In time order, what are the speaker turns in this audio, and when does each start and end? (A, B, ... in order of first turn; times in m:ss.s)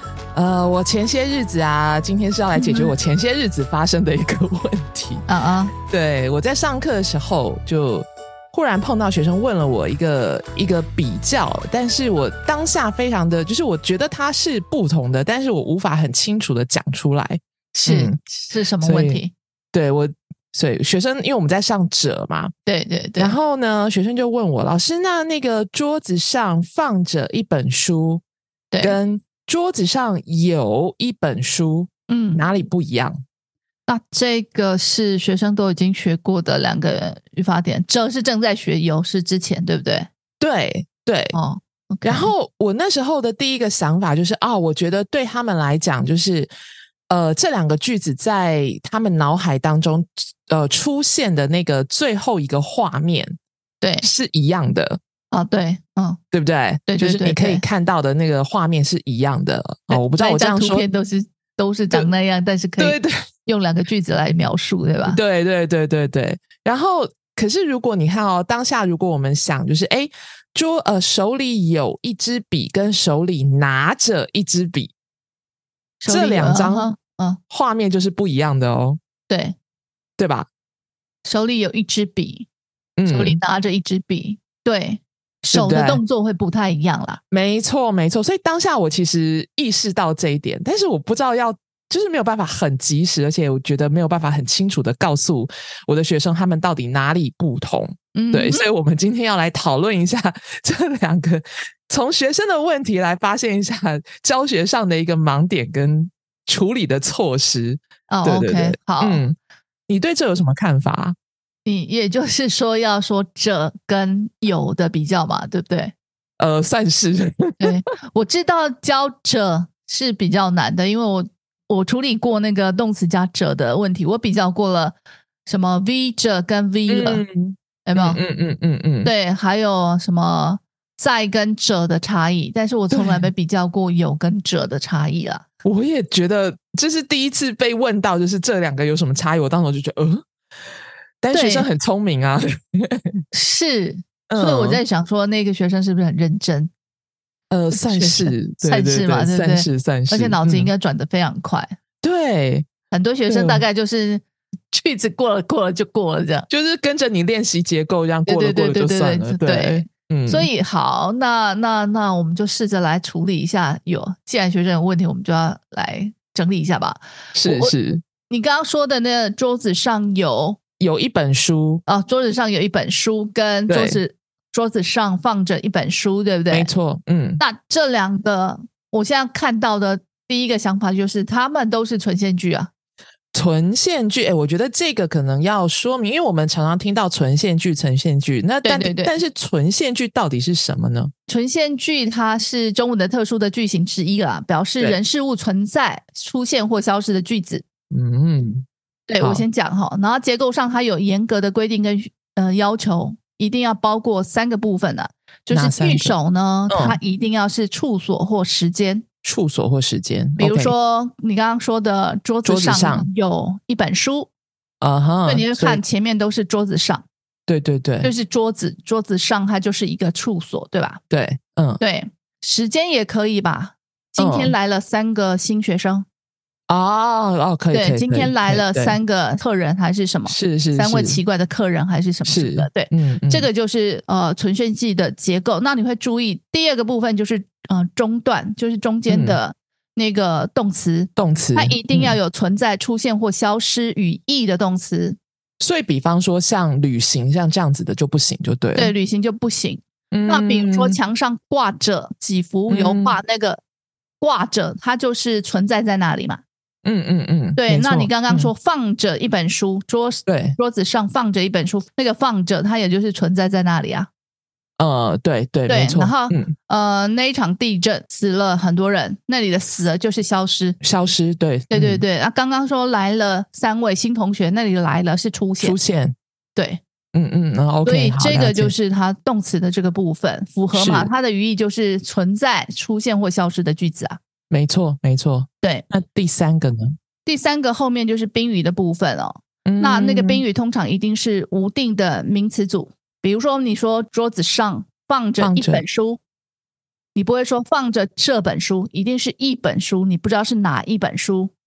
0:00.3-0:05.2 A
0:02.6-0:02.9 B
0:05.3-0:05.7 B
0:05.9-0:18.2 A
0:17.8-0:19.3 B
0:18.8-0:19.2 A
0:19.7-0:22.5 A
0:22.7-0:23.4 B
0:23.2-0:28.2 A
0:28.7-0:29.0 B
0:28.8-0:33.2 A
0:32.1-0:32.4 B
0:33.9-0:40.1 B
0:40.4-0:41.4 A
0:41.3-0:42.3 B
0:42.0-0:46.5 A
0:47.1-0:53.4 A
0:53.8-0:54.1 B
0:54.0-0:55.0 A
0:55.3-0:56.2 B
0:56.3-1:00.9 A
0:56.9-0:57.6 B
0:59.9-1:05.2 B
1:02.8-1:03.2 A
1:05.0-1:14.9 A
1:16.0-1:17.4 B
1:16.1-1:16.9 A
1:17.5-1:19.0 A
1:19.3-1:19.6 B
1:20.2-1:20.5 A
1:21.2-1:22.5 B
1:23.0-1:23.4 A
1:23.1-1:27.2 B
1:25.5-1:26.0 A
1:27.3-1:49.4 A
1:38.2-1:38.6 B
1:48.1-1:49.2 B
1:49.9-1:51.2 A
1:51.6-1:55.9 B
1:56.4-1:57.7 A
1:57.6-2:07.2 B
2:06.9-2:09.1 A
2:07.8-2:08.2 B
2:09.0-2:15.5 B
2:12.9-2:13.3 A
2:15.6-2:20.2 A
2:21.2-2:23.2 A
2:21.3-2:21.7 B
2:23.3-2:26.7 B
2:24.3-2:24.8 A
2:27.5-2:30.7 A
2:27.7-2:31.8 B
2:32.0-2:32.7 A
2:32.9-2:36.5 B
2:33.3-2:33.6 A
2:36.5-2:40.5 A
2:38.3-2:47.8 B
2:47.4-2:48.0 A
2:48.3-2:50.6 B
2:50.8-2:51.8 A
2:51.9-2:56.7 B
2:53.7-2:54.0 A
2:56.5-2:57.4 A
2:57.4-3:02.7 B
3:03.3-3:11.1 A
3:08.6-3:09.2 B
3:11.3-3:17.6 B
3:17.9-3:18.7 A
3:19.1-3:29.0 B
3:19.2-3:19.4 A
3:25.5-3:26.2 A
3:26.7-3:27.0 A
3:29.2-3:30.7 A
3:30.4-3:34.3 B
3:32.4-3:33.1 A
3:34.8-3:35.8 A
3:35.3-3:37.1 B
3:37.5-3:38.1 A
3:38.0-3:41.0 B
3:41.1-3:41.8 A
3:41.8-3:46.1 B
3:44.2-3:44.5 A
3:46.7-3:49.0 A
3:47.7-4:05.2 B
3:50.3-3:51.2 A
3:52.3-3:53.5 A
3:59.1-3:59.4 A
4:01.2-4:02.2 A
4:05.6-4:08.9 A
4:08.8-4:13.6 B
4:10.1-4:11.0 A
4:12.7-4:13.2 A
4:14.2-4:16.4 B
4:16.8-4:18.5 A
4:17.6-4:24.1 B
4:20.3-4:20.6 A
4:24.8-4:26.5 A
4:25.7-4:30.8 B
4:30.8-4:32.0 A
4:31.7-4:35.8 B
4:35.6-4:36.2 A
4:36.6-4:36.8 B
4:37.1-4:38.7 A
4:37.8-4:44.2 B
4:40.7-4:41.1 A
4:44.5-4:47.0 A
4:47.3-4:56.2 B
4:49.7-4:50.4 A
4:55.4-4:55.8 A
4:57.2-5:01.5 B